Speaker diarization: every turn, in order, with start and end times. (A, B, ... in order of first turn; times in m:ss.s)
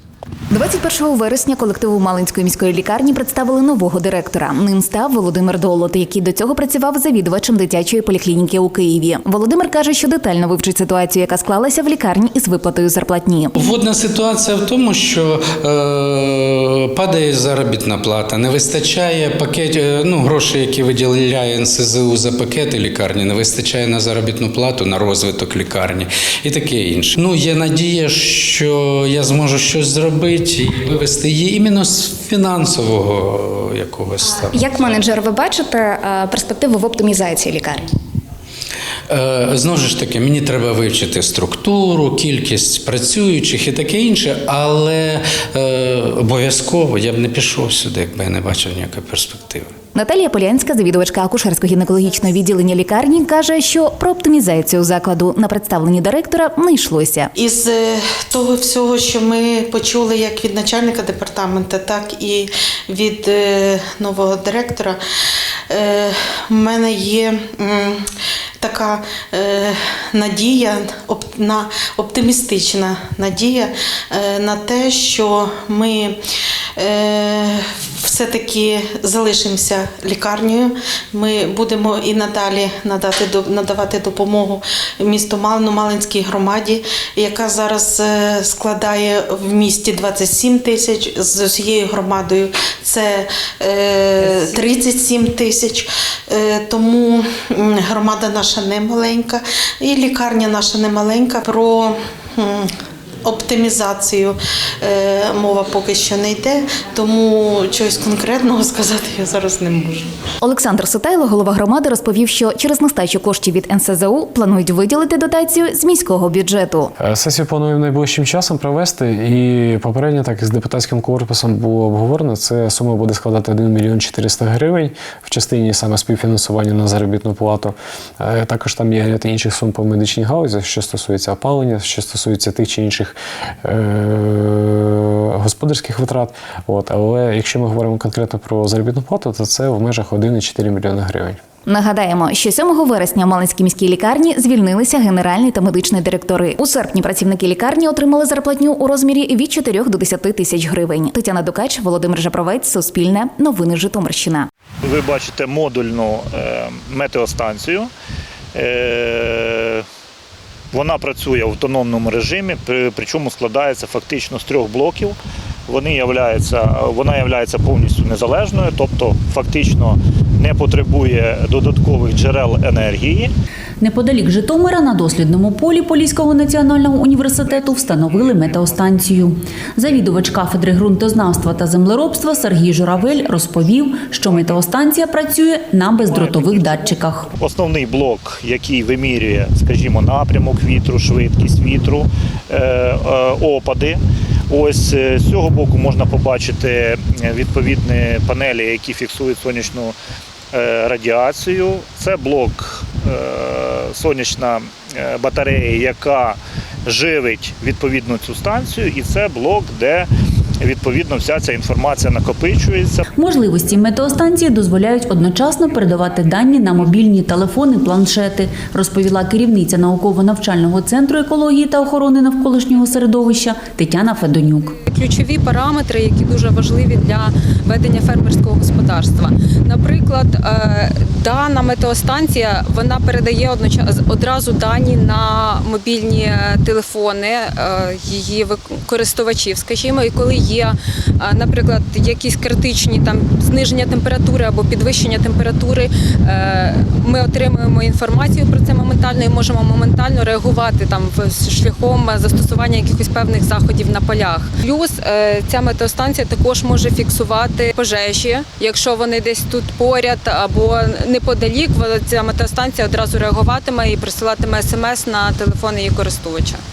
0:00.5-0:13.5 A
0:13.5-0:35.0 B
0:34.6-0:37.8 A
0:39.1-0:49.7 B
0:49.9-0:57.3 A
0:57.4-1:05.0 C
1:05.7-1:08.0 C
1:08.6-1:16.1 C
1:16.8-1:42.6 C
1:43.2-1:50.1 C
1:50.4-1:57.0 A
1:57.0-2:21.4 D
2:21.6-2:34.5 A
2:34.8-2:37.9 E
2:38.5-2:39.8 E
2:40.7-2:53.3 E
2:53.8-3:07.3 F
2:57.7-2:59.2 E
3:04.2-3:04.6 E
3:06.0-3:20.0 E
3:20.5-3:30.1 E
3:30.6-3:33.1 E
3:33.1-3:44.7 F
3:44.9-4:26.6 G